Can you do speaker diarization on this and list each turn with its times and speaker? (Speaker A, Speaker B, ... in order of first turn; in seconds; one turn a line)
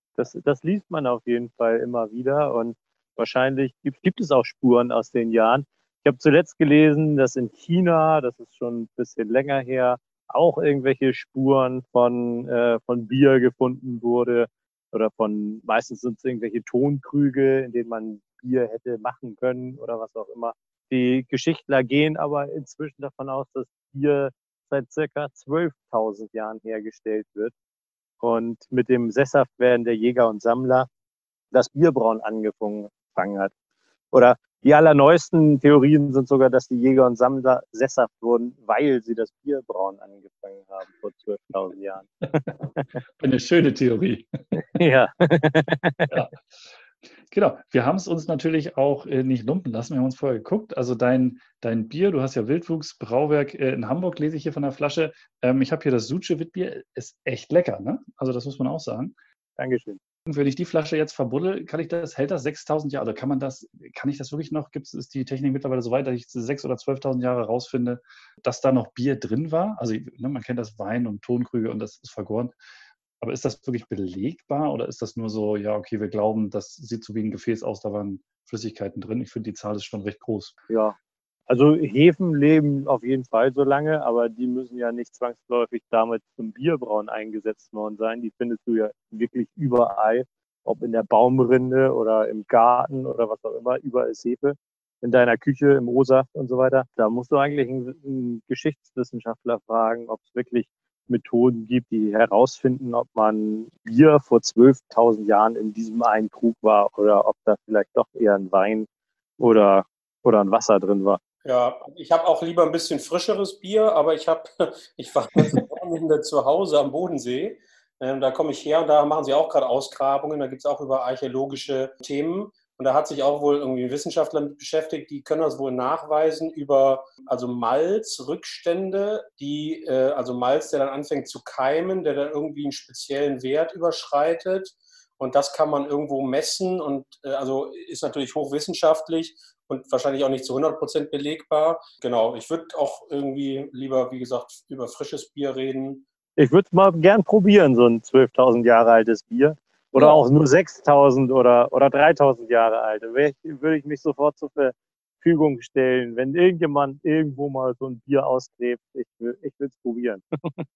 Speaker A: 0.2-27.5
Speaker A: 28.2-30.9
Speaker A: 31.5-33.5
Speaker A: 34.1-42.9
Speaker B: 43.2-44.3
Speaker A: 44.5-46.1
Speaker B: 46.1-46.4
Speaker B: 47.3-59.1
Speaker A: 59.6-60.0
Speaker B: 60.3-72.5
Speaker B: 73.2-80.6
Speaker A: 80.7-81.0
Speaker A: 81.5-108.9
Speaker A: 109.4-111.2
Speaker C: 111.4-146.1
Speaker A: 146.4-160.6
Speaker C: 150.0-150.2